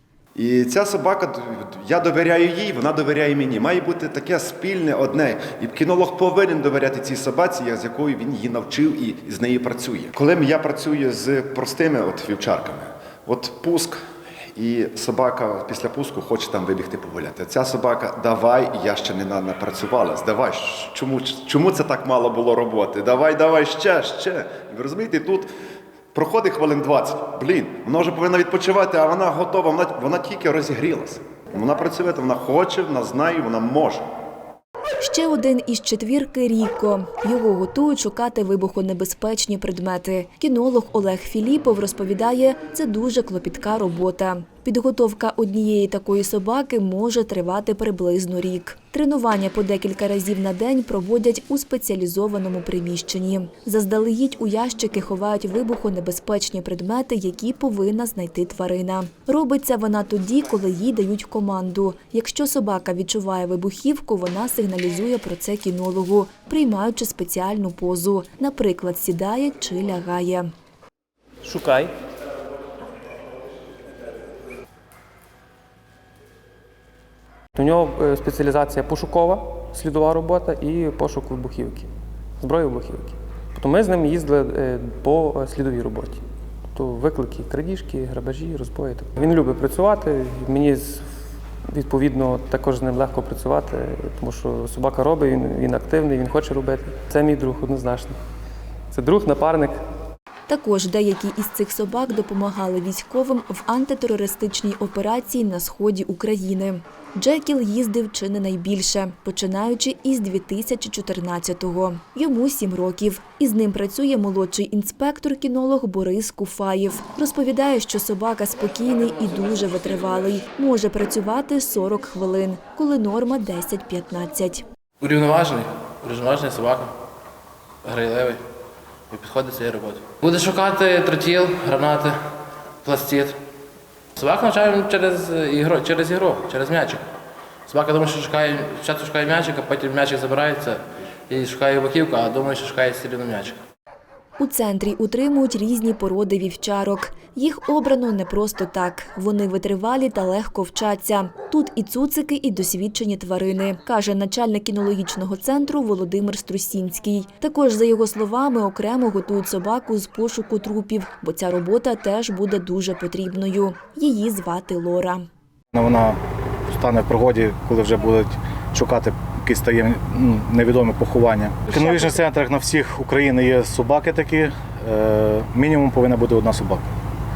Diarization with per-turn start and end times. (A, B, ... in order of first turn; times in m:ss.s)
0:00.3-0:14.0 A
0:14.5-0:25.5 A
0:26.1-0:34.0 A
0:35.0-1:10.5 B
1:11.4-1:11.9 C
1:17.5-1:31.1 C
1:31.7-1:38.2 C
1:38.9-1:39.8 C
1:40.5-2:04.6 B
2:05.0-2:06.9 D
2:07.8-2:08.4 D
2:09.1-2:12.2 D
2:12.8-2:13.4 D
2:14.2-2:17.0 D
2:17.7-2:23.6 D
2:24.4-2:45.3 B
2:45.7-2:56.9 E